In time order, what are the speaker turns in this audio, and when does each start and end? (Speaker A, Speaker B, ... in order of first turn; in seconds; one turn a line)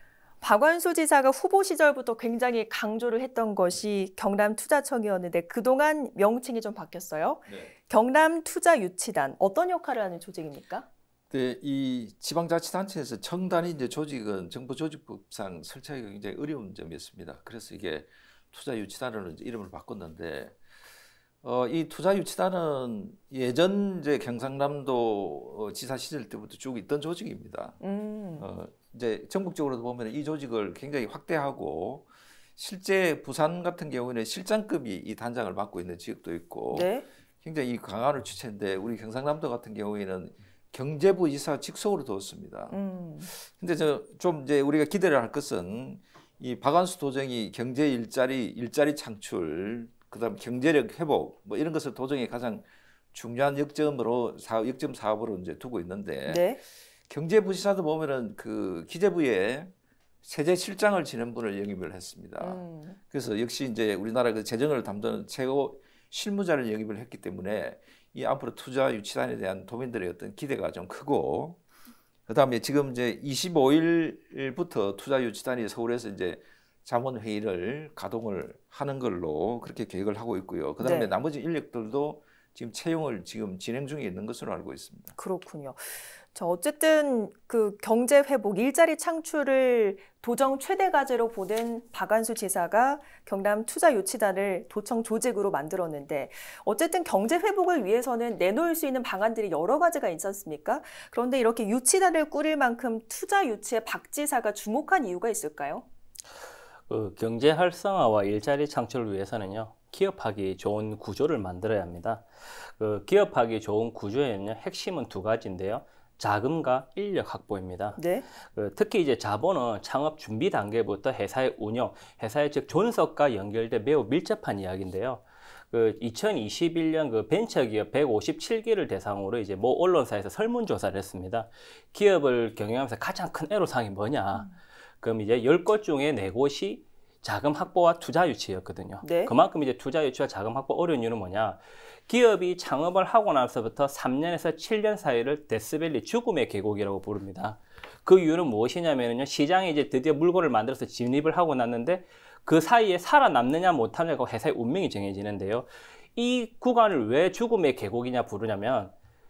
Speaker A: 0.4-10.9
Speaker B: 11.3-20.5
Speaker B: 21.4-27.8
Speaker A: 27.8-28.4
Speaker B: 28.4-42.8
Speaker A: 36.7-37.0
Speaker A: 42.7-43.3
Speaker B: 43.3-56.5
Speaker A: 56.3-56.6
Speaker B: 57.1-59.7
Speaker B: 60.2-71.6
Speaker A: 62.4-63.0
Speaker B: 72.3-85.1
Speaker A: 80.8-81.1
Speaker A: 85.2-105.8
Speaker C: 106.9-134.5
Speaker A: 118.0-118.2
Speaker C: 135.0-158.9
Speaker A: 139.0-139.3